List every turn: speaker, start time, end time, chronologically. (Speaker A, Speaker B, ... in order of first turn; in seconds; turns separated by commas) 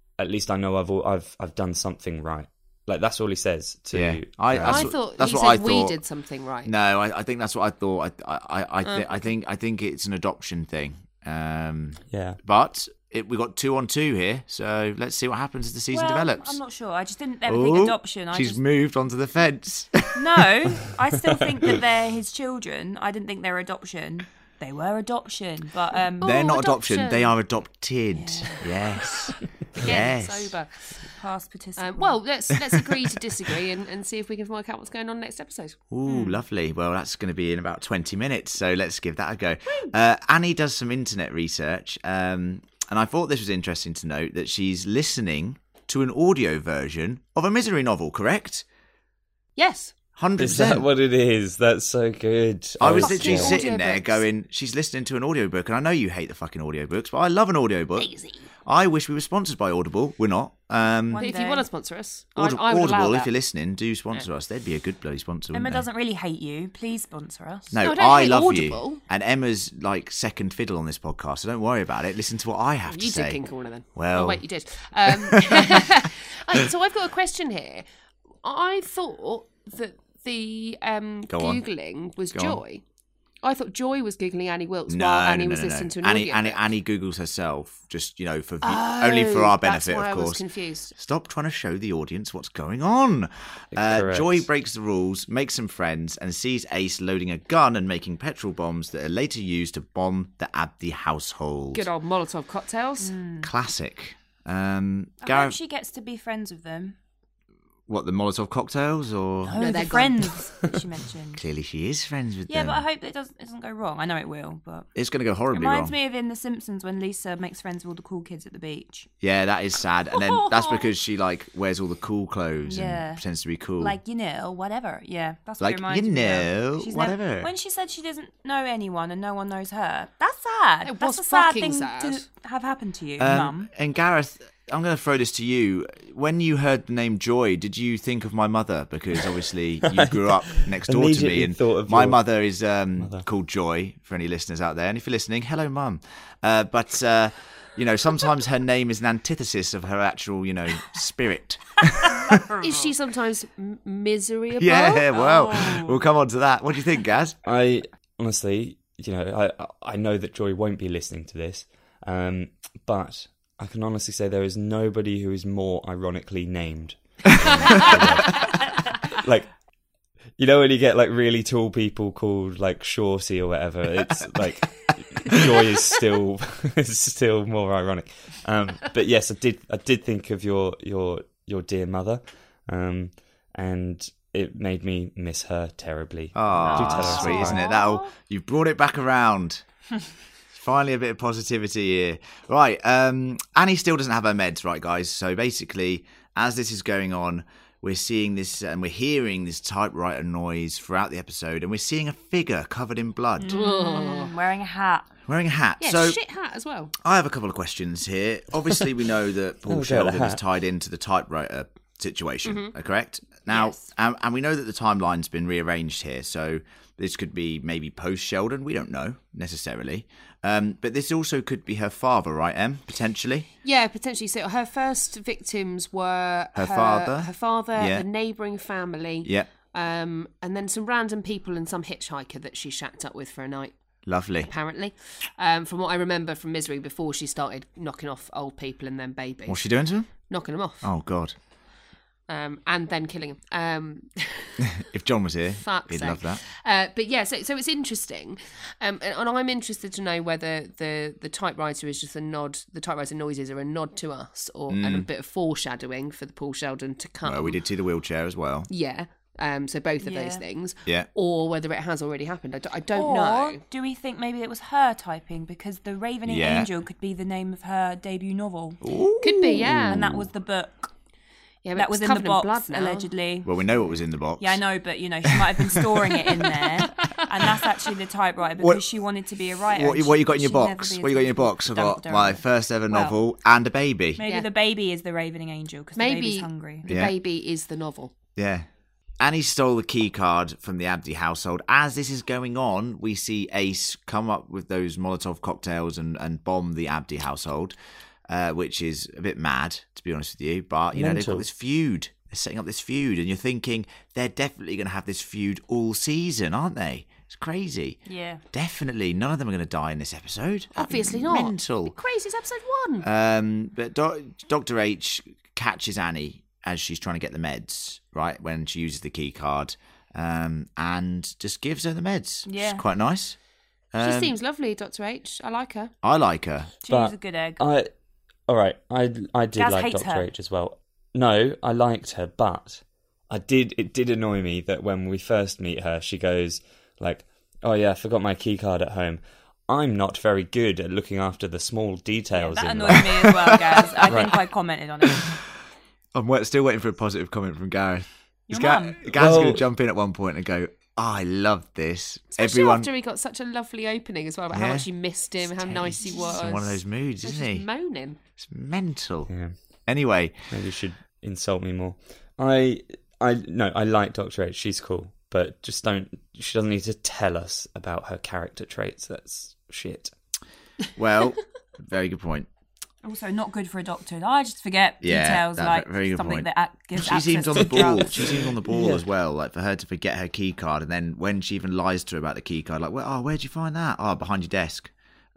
Speaker A: 0.2-5.0, Speaker B: 3.9-6.0, Speaker C: 4.6-6.7, Speaker B: 6.6-16.6, Speaker C: 8.8-9.3, Speaker A: 12.1-12.4, Speaker D: 15.9-18.6, Speaker B: 17.4-20.2, Speaker D: 20.1-26.4, Speaker C: 26.2-27.3, Speaker B: 26.2-30.5, Speaker D: 28.1-28.8, Speaker C: 29.8-31.0, Speaker D: 31.1-32.2, Speaker C: 31.8-35.8, Speaker B: 35.9-48.6, Speaker D: 36.1-36.4, Speaker C: 49.6-50.0, Speaker B: 50.2-50.9, Speaker A: 50.4-53.6, Speaker B: 52.8-58.1, Speaker C: 52.9-54.2, Speaker C: 58.0-58.5, Speaker B: 58.6-61.2, Speaker D: 61.1-61.7, Speaker C: 61.2-63.3, Speaker B: 62.4-65.8, Speaker D: 65.5-67.7, Speaker B: 67.7-73.4, Speaker C: 67.8-69.0, Speaker C: 72.9-77.8, Speaker B: 74.0-74.4, Speaker B: 75.1-75.8, Speaker C: 78.4-82.8, Speaker B: 81.3-81.6, Speaker B: 82.3-82.6, Speaker C: 83.4-86.7, Speaker B: 84.9-90.4, Speaker C: 88.6-90.9, Speaker B: 90.9-101.9, Speaker A: 93.7-94.5, Speaker C: 101.7-103.2, Speaker D: 103.0-103.5, Speaker B: 103.4-105.6, Speaker D: 105.2-107.0, Speaker B: 107.9-109.6, Speaker D: 109.5-111.4, Speaker C: 109.6-110.4, Speaker B: 111.4-112.8, Speaker D: 112.5-114.9, Speaker B: 115.0-116.0, Speaker D: 115.5-119.1, Speaker B: 119.2-124.0, Speaker C: 120.1-120.9, Speaker D: 122.7-123.2, Speaker D: 123.8-133.7, Speaker B: 125.6-127.5, Speaker C: 130.8-132.2, Speaker B: 133.2-152.4, Speaker A: 139.9-142.2, Speaker A: 143.0-143.2, Speaker D: 152.5-152.9, Speaker C: 152.6-155.1, Speaker B: 154.5-157.4, Speaker D: 155.1-155.9, Speaker A: 157.4-169.5, Speaker A: 170.4-187.6, Speaker B: 186.3-189.6, Speaker D: 186.6-187.4, Speaker C: 186.7-188.1, Speaker B: 190.5-203.6, Speaker D: 203.4-205.1, Speaker C: 203.5-204.3, Speaker B: 205.3-206.2, Speaker C: 205.8-206.9, Speaker B: 207.0-223.5, Speaker A: 209.7-210.4, Speaker C: 212.4-212.7, Speaker D: 213.5-213.8, Speaker C: 223.6-233.7, Speaker B: 226.6-228.1, Speaker B: 229.2-229.5, Speaker B: 234.1-234.5, Speaker C: 234.4-239.7, Speaker B: 239.5-240.3, Speaker C: 240.2-240.9, Speaker B: 240.8-241.3, Speaker C: 242.3-244.7, Speaker B: 244.7-246.4, Speaker C: 245.6-257.6, Speaker B: 254.7-255.1, Speaker B: 257.2-258.7, Speaker C: 258.7-263.6, Speaker D: 260.0-260.4, Speaker D: 262.9-268.8, Speaker B: 266.3-266.7, Speaker B: 268.8-270.3, Speaker C: 269.2-270.0, Speaker D: 269.6-270.9, Speaker C: 271.6-273.1, Speaker D: 271.8-273.5, Speaker B: 273.4-274.6, Speaker D: 274.4-283.2, Speaker B: 279.7-284.2, Speaker D: 284.2-286.9, Speaker C: 286.0-288.1, Speaker B: 286.9-287.1, Speaker B: 288.4-288.7, Speaker B: 289.2-297.8, Speaker B: 298.3-308.0, Speaker A: 300.9-301.4, Speaker D: 308.1-308.4, Speaker B: 308.5-311.9, Speaker C: 310.8-313.1, Speaker B: 313.0-323.4, Speaker D: 322.5-322.8, Speaker B: 323.9-324.4, Speaker C: 324.0-325.9, Speaker B: 326.0-326.7, Speaker D: 326.8-327.6, Speaker A: 326.9-327.9, Speaker A: 328.5-343.4, Speaker D: 329.6-330.3, Speaker D: 342.3-345.4, Speaker A: 344.1-344.4, Speaker B: 346.1-352.9, Speaker D: 348.5-349.1, Speaker A: 349.1-349.6, Speaker C: 352.4-358.2, Speaker B: 354.5-354.9, Speaker B: 355.4-357.7, Speaker B: 358.4-359.3, Speaker A: 359.3-359.6, Speaker B: 359.9-360.4, Speaker A: 360.5-370.1, Speaker B: 371.0-372.5, Speaker D: 373.0-378.5, Speaker B: 375.0-384.9, Speaker A: 378.7-379.0